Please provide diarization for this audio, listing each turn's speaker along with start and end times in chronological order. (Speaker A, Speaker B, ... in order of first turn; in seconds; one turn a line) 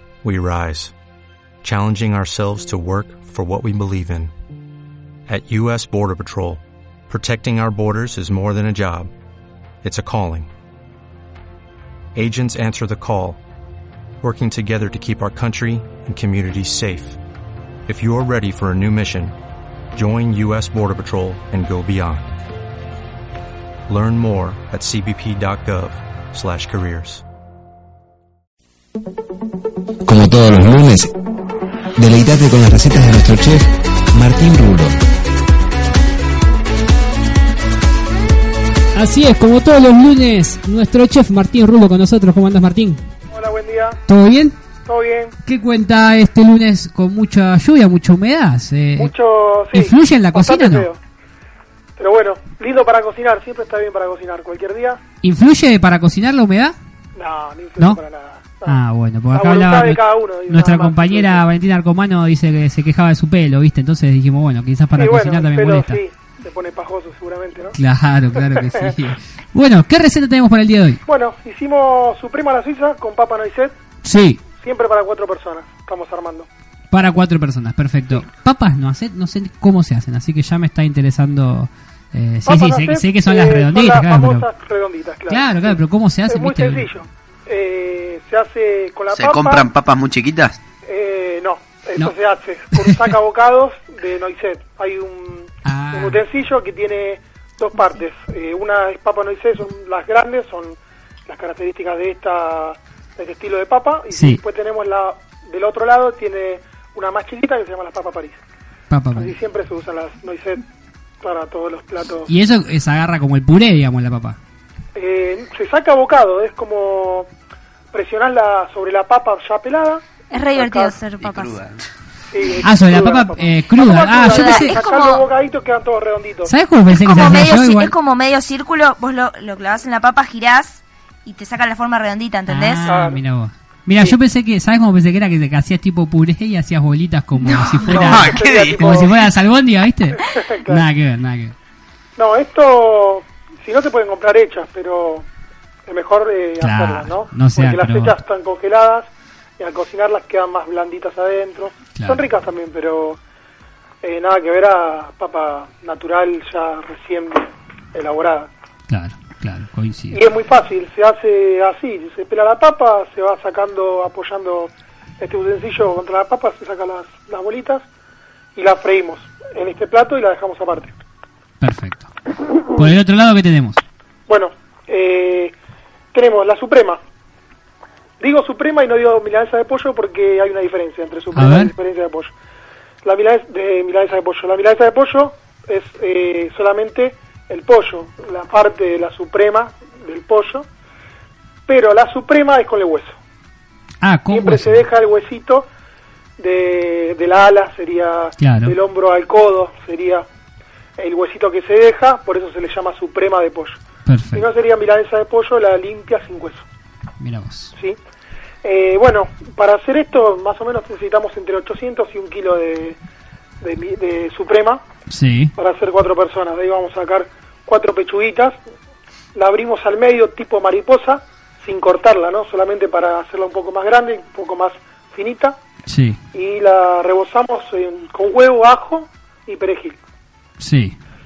Speaker A: 0.2-0.9
Speaker A: 1.6-4.3
Speaker A: 5.3-9.1
Speaker A: 9.8-10.5
Speaker A: 12.2-13.4
Speaker A: 14.2-17.2
Speaker A: 17.9-19.4
Speaker A: 19.9-22.3
Speaker A: 23.9-27.2
Speaker B: 32.0-33.5
Speaker B: 34.2-34.9
Speaker C: 39.0-43.0
Speaker D: 43.3-44.0
Speaker C: 44.1-44.6
Speaker D: 44.9-45.4
Speaker C: 45.5-49.1
Speaker D: 49.0-51.0
Speaker C: 49.7-50.9
Speaker D: 52.0-55.0
Speaker C: 55.2-56.8
Speaker D: 57.1-58.8
Speaker C: 58.7-66.0
Speaker D: 59.3-61.4
Speaker D: 65.0-67.8
Speaker C: 67.8-71.0
Speaker D: 68.4-68.8
Speaker D: 71.0-73.8
Speaker C: 74.0-74.4
Speaker D: 74.6-76.5
Speaker C: 76.9-84.5
Speaker D: 82.5-89.7
Speaker C: 85.3-86.9
Speaker E: 89.1-90.6
Speaker D: 90.8-108.4
Speaker C: 92.7-93.1
Speaker C: 95.7-96.2
Speaker C: 104.1-104.4
Speaker C: 108.9-109.3
Speaker D: 109.2-110.6
Speaker D: 111.2-112.3
Speaker C: 112.3-114.4
Speaker D: 115.0-117.3
Speaker D: 117.9-121.0
Speaker F: 120.3-121.6
Speaker E: 121.2-121.8
Speaker D: 122.3-126.5
Speaker C: 122.6-124.8
Speaker F: 123.9-125.2
Speaker C: 126.5-127.9
Speaker D: 127.1-127.5
Speaker F: 127.1-132.9
Speaker C: 132.5-141.5
Speaker D: 132.9-133.2
Speaker D: 137.8-139.2
Speaker E: 138.0-139.0
Speaker D: 140.2-140.9
Speaker D: 142.2-145.3
Speaker D: 145.9-149.1
Speaker C: 146.6-148.2
Speaker D: 149.6-153.2
Speaker C: 152.0-152.2
Speaker D: 154.0-158.5
Speaker C: 158.9-160.2
Speaker D: 160.1-167.9
Speaker D: 168.6-170.9
Speaker C: 171.6-172.1
Speaker C: 172.6-173.8
Speaker D: 174.3-175.6
Speaker D: 176.1-177.0
Speaker D: 178.2-182.3
Speaker C: 181.3-181.7
Speaker D: 183.0-190.7
Speaker D: 191.7-193.2
Speaker C: 194.0-194.8
Speaker D: 194.3-195.7
Speaker D: 196.4-200.3
Speaker C: 198.4-198.8
Speaker D: 201.0-203.8
Speaker C: 204.1-204.5
Speaker D: 204.3-206.7
Speaker C: 207.2-207.7
Speaker D: 208.6-213.0
Speaker D: 213.6-214.8
Speaker C: 215.1-215.5
Speaker D: 215.6-218.6
Speaker D: 219.3-225.6
Speaker C: 225.9-226.2
Speaker D: 226.3-230.0
Speaker C: 230.6-230.9